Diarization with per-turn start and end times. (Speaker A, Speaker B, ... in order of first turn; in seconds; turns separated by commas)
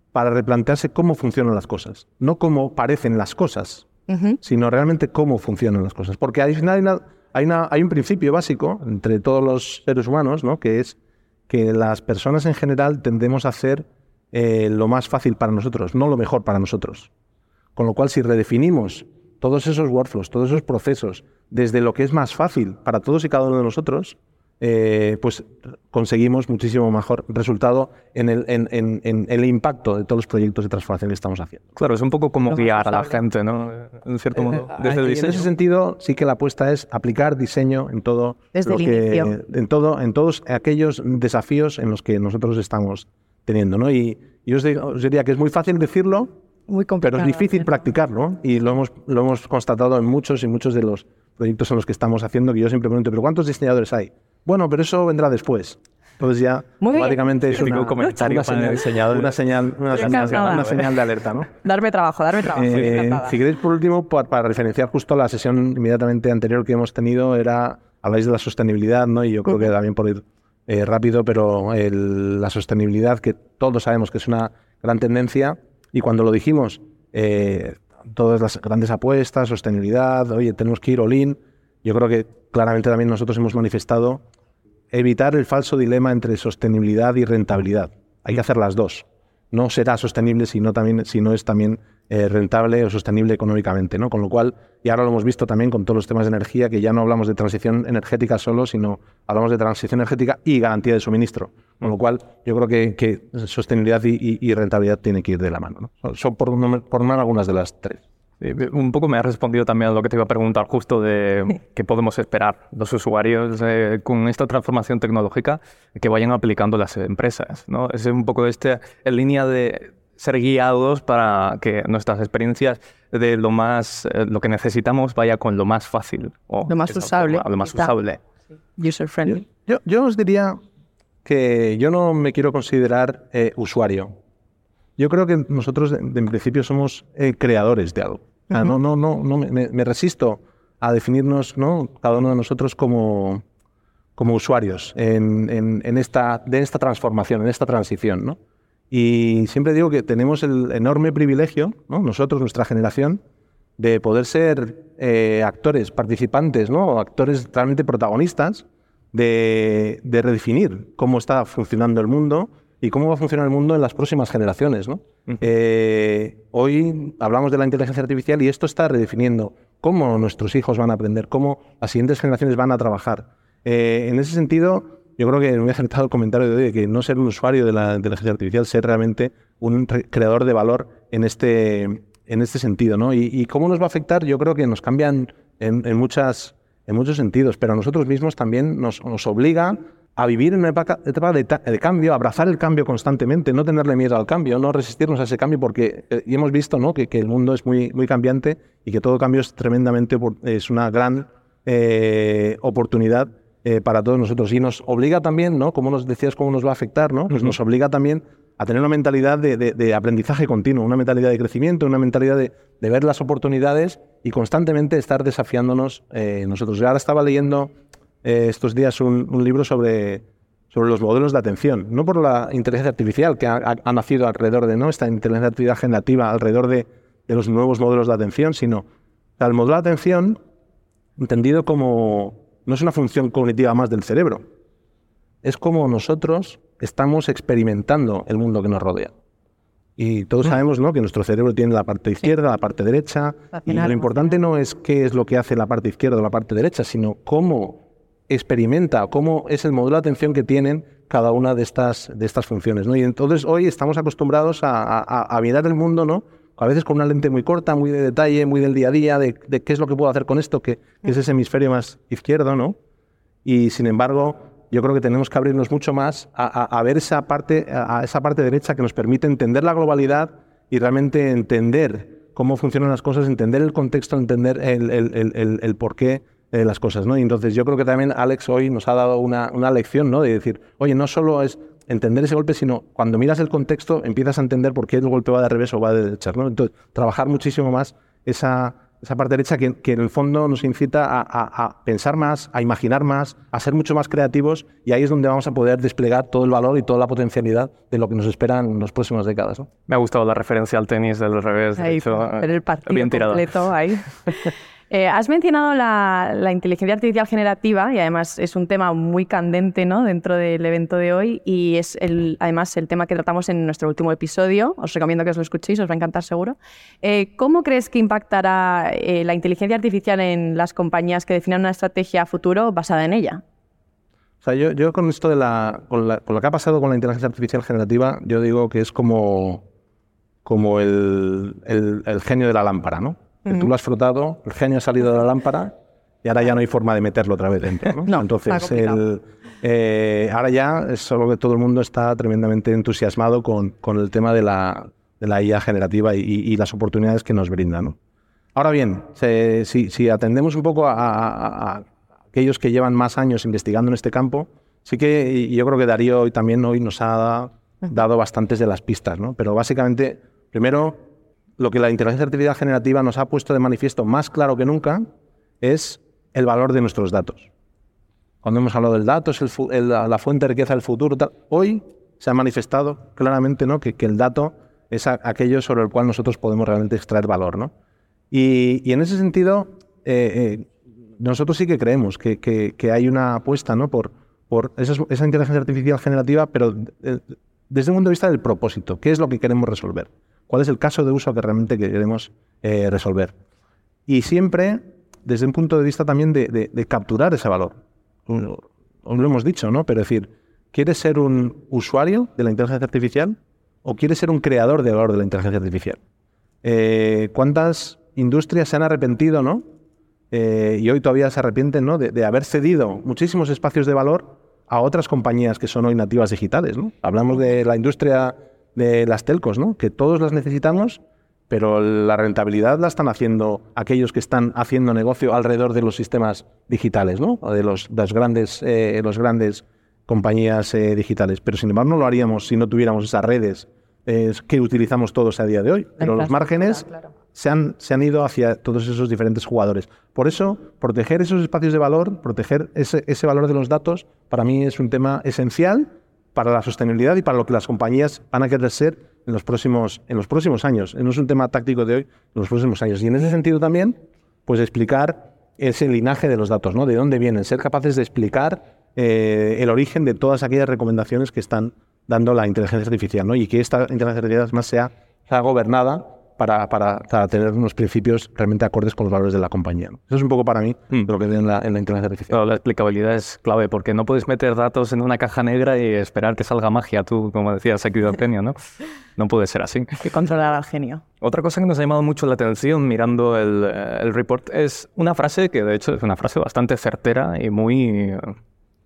Speaker A: 0.1-3.9, Speaker B: 4.1-4.4, Speaker A: 4.4-11.0, Speaker A: 11.5-17.1, Speaker A: 17.8-31.7, Speaker C: 31.8-35.5, Speaker B: 32.6-33.1, Speaker A: 34.4-46.3, Speaker B: 38.5-39.3, Speaker B: 46.7-47.6, Speaker A: 47.0-61.5, Speaker B: 56.8-57.2, Speaker C: 57.5-59.3, Speaker B: 59.9-60.8, Speaker C: 60.0-60.9, Speaker B: 61.6-63.3, Speaker A: 62.5-84.2, Speaker A: 84.9-108.0, Speaker C: 108.4-128.2, Speaker B: 126.7-127.9, Speaker B: 128.8-129.4, Speaker A: 129.3-130.6, Speaker A: 131.2-134.1, Speaker A: 135.0-143.4, Speaker A: 144.2-148.4, Speaker A: 148.9-153.2, Speaker A: 153.8-217.7, Speaker A: 218.2-228.9, Speaker A: 229.4-230.4, Speaker A: 231.2-234.5, Speaker A: 235.4-239.1, Speaker A: 240.0-262.8, Speaker A: 263.4-299.7, Speaker C: 299.9-303.6, Speaker B: 301.8-323.4, Speaker A: 324.4-329.6, Speaker A: 330.4-348.0, Speaker B: 338.1-339.0, Speaker A: 348.6-361.1, Speaker A: 361.6-365.1, Speaker A: 365.6-367.5, Speaker A: 368.4-377.7, Speaker A: 378.3-393.4, Speaker A: 394.1-406.0, Speaker A: 406.6-409.6, Speaker A: 410.3-472.4, Speaker C: 472.3-478.6, Speaker C: 479.1-480.0, Speaker B: 480.0-481.0, Speaker C: 481.2-488.4